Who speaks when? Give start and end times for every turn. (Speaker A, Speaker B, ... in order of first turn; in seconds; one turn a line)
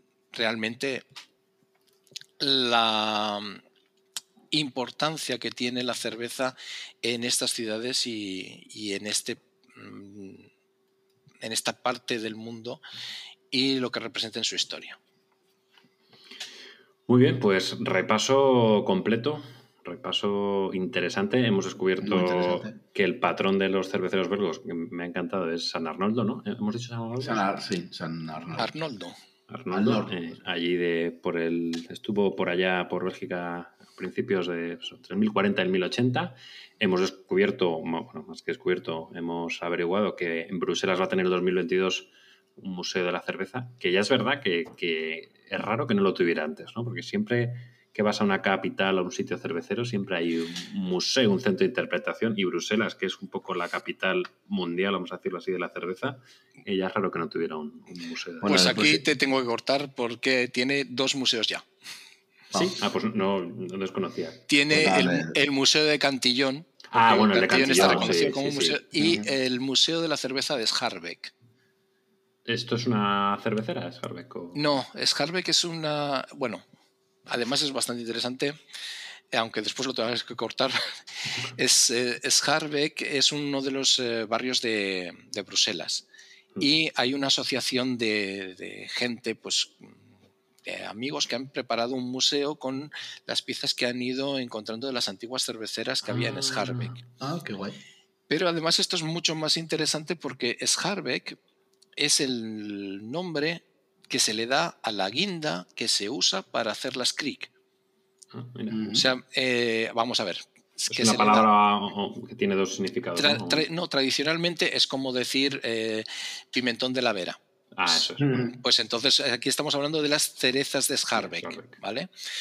Speaker A: 0.3-1.1
Speaker A: 2.4-3.6
Speaker A: 4.5-10.5
Speaker A: 11.4-12.8
Speaker A: 13.5-15.0
Speaker B: 17.1-27.5
Speaker C: 22.0-22.7
Speaker C: 27.2-28.7
Speaker A: 28.6-29.2
Speaker B: 29.5-58.9
Speaker C: 29.7-30.1
Speaker C: 58.4-59.0
Speaker A: 58.5-61.7
Speaker B: 62.5-64.5
Speaker A: 64.5-71.3
Speaker C: 64.7-65.4
Speaker B: 66.9-68.8
Speaker C: 67.6-68.2
Speaker C: 69.0-69.3
Speaker B: 72.5-74.6
Speaker A: 74.5-76.6
Speaker A: 77.3-78.6
Speaker A: 79.3-80.8
Speaker A: 81.5-86.0
Speaker A: 86.6-90.0
Speaker A: 90.6-97.0
Speaker B: 96.1-97.0
Speaker C: 97.2-97.8
Speaker A: 98.3-101.4
Speaker A: 102.0-107.5
Speaker B: 108.3-108.8
Speaker C: 108.7-109.0
Speaker A: 108.9-111.5
Speaker B: 110.9-113.7
Speaker A: 113.2-117.4
Speaker B: 117.8-118.5
Speaker C: 118.2-118.5
Speaker A: 118.5-122.1
Speaker B: 121.2-121.7